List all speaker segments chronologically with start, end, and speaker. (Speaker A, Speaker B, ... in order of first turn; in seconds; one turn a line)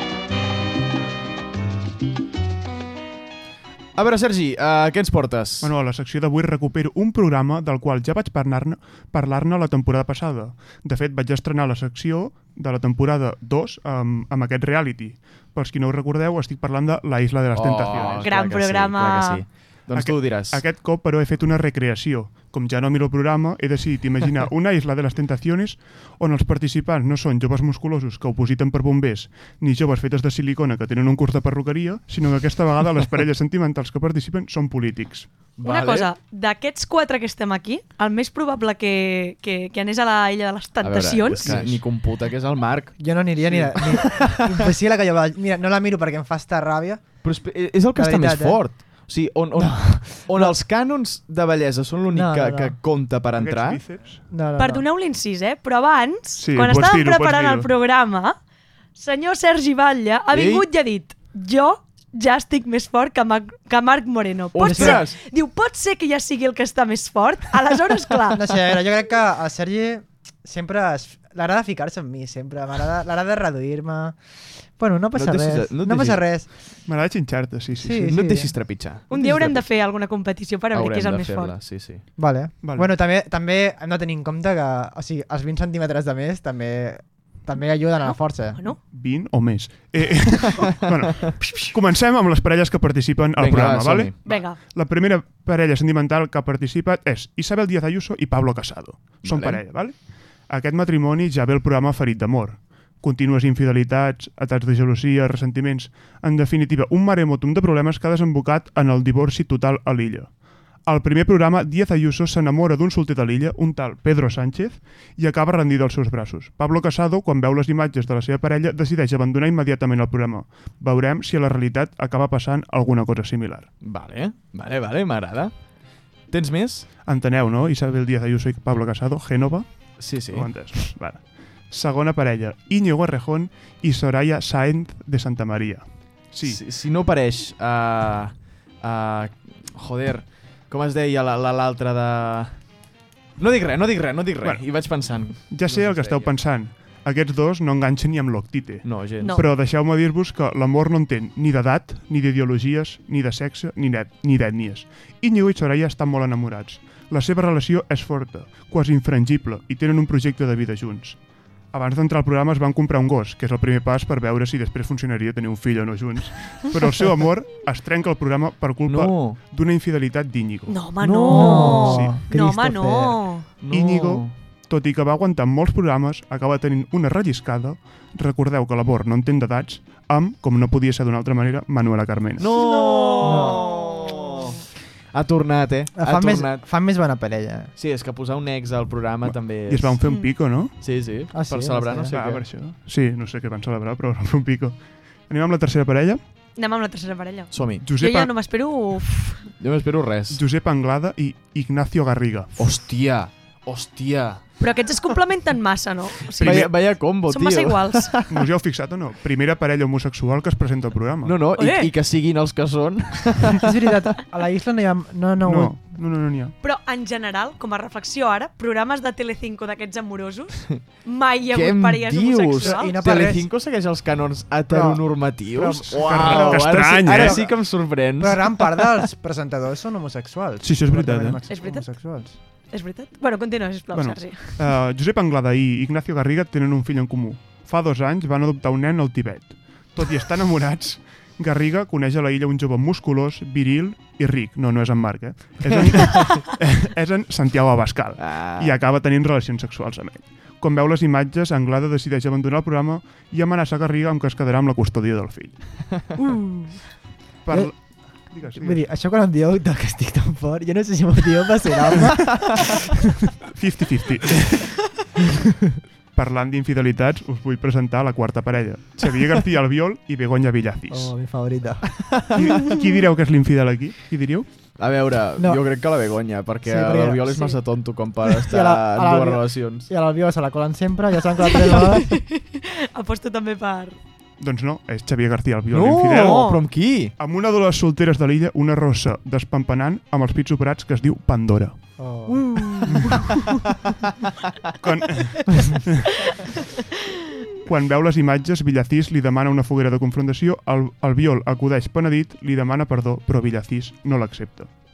Speaker A: 4.0-5.7
Speaker B: 5.6-18.3
Speaker A: 17.5-20.6
Speaker C: 18.1-19.4
Speaker B: 19.9-35.3
Speaker A: 35.6-36.1
Speaker C: 35.6-41.6
Speaker A: 40.8-44.7
Speaker D: 43.0-47.1
Speaker A: 47.2-53.8
Speaker D: 48.0-48.6
Speaker D: 49.6-50.6
Speaker D: 52.1-52.8
Speaker B: 53.4-54.2
Speaker D: 54.3-54.9
Speaker C: 54.6-58.4
Speaker B: 56.4-57.7
Speaker C: 59.0-68.4
Speaker A: 60.3-60.7
Speaker A: 64.5-65.2
Speaker D: 64.6-65.0
Speaker D: 68.3-74.2
Speaker D: 74.8-76.5
Speaker A: 75.2-76.2
Speaker B: 76.9-78.2
Speaker D: 77.8-79.3
Speaker A: 78.1-79.6
Speaker C: 79.1-81.5
Speaker A: 80.7-82.0
Speaker D: 82.2-88.6
Speaker B: 82.6-82.9
Speaker C: 88.0-88.8
Speaker B: 88.8-123.7
Speaker A: 93.4-94.1
Speaker C: 94.2-94.6
Speaker A: 99.2-99.6
Speaker A: 123.8-125.5
Speaker A: 126.3-126.9
Speaker B: 127.0-136.6
Speaker A: 130.0-130.9
Speaker A: 136.4-142.6
Speaker A: 143.4-146.3
Speaker B: 144.4-144.7
Speaker B: 145.4-161.2
Speaker A: 148.8-149.4
Speaker B: 161.7-170.9
Speaker A: 168.9-169.4
Speaker C: 170.7-173.5
Speaker A: 171.0-171.8
Speaker D: 171.2-173.2
Speaker B: 171.8-172.1
Speaker A: 173.6-174.3
Speaker B: 173.7-182.5
Speaker A: 182.4-186.7
Speaker C: 182.7-183.5
Speaker D: 183.2-183.7
Speaker D: 185.9-187.7
Speaker A: 187.8-190.0
Speaker B: 189.3-190.8
Speaker C: 190.0-190.3
Speaker A: 190.8-192.5
Speaker D: 191.3-192.1
Speaker B: 192.1-196.2
Speaker C: 196.6-199.4
Speaker A: 197.5-197.9
Speaker B: 197.8-198.3
Speaker A: 199.6-200.4
Speaker B: 200.3-202.5
Speaker A: 202.6-204.4
Speaker C: 204.6-208.1
Speaker B: 206.4-206.7
Speaker A: 206.4-208.5
Speaker B: 208.3-211.4
Speaker A: 211.2-213.7
Speaker C: 211.6-211.9
Speaker D: 213.6-215.8
Speaker B: 215.4-216.6
Speaker C: 216.6-222.9
Speaker A: 221.5-228.9
Speaker D: 222.6-223.5
Speaker D: 224.7-232.4
Speaker B: 226.0-227.4
Speaker B: 230.6-231.4
Speaker C: 231.5-231.9
Speaker C: 232.7-234.6
Speaker B: 233.9-255.8
Speaker A: 245.8-246.4
Speaker A: 248.2-248.8
Speaker B: 257.4-258.8
Speaker D: 258.3-262.8
Speaker B: 263.5-264.8
Speaker B: 266.1-271.1
Speaker D: 270.9-272.1
Speaker B: 272.4-274.5
Speaker A: 274.8-279.9
Speaker D: 275.4-275.6
Speaker D: 276.6-277.6
Speaker D: 278.2-282.2
Speaker C: 281.6-284.0
Speaker B: 284.4-286.6
Speaker A: 285.7-287.1
Speaker C: 286.2-286.6
Speaker B: 287.2-291.8
Speaker D: 292.0-293.1
Speaker C: 292.3-293.1
Speaker B: 292.9-293.3
Speaker B: 294.8-296.1
Speaker C: 296.3-296.5
Speaker B: 297.6-304.7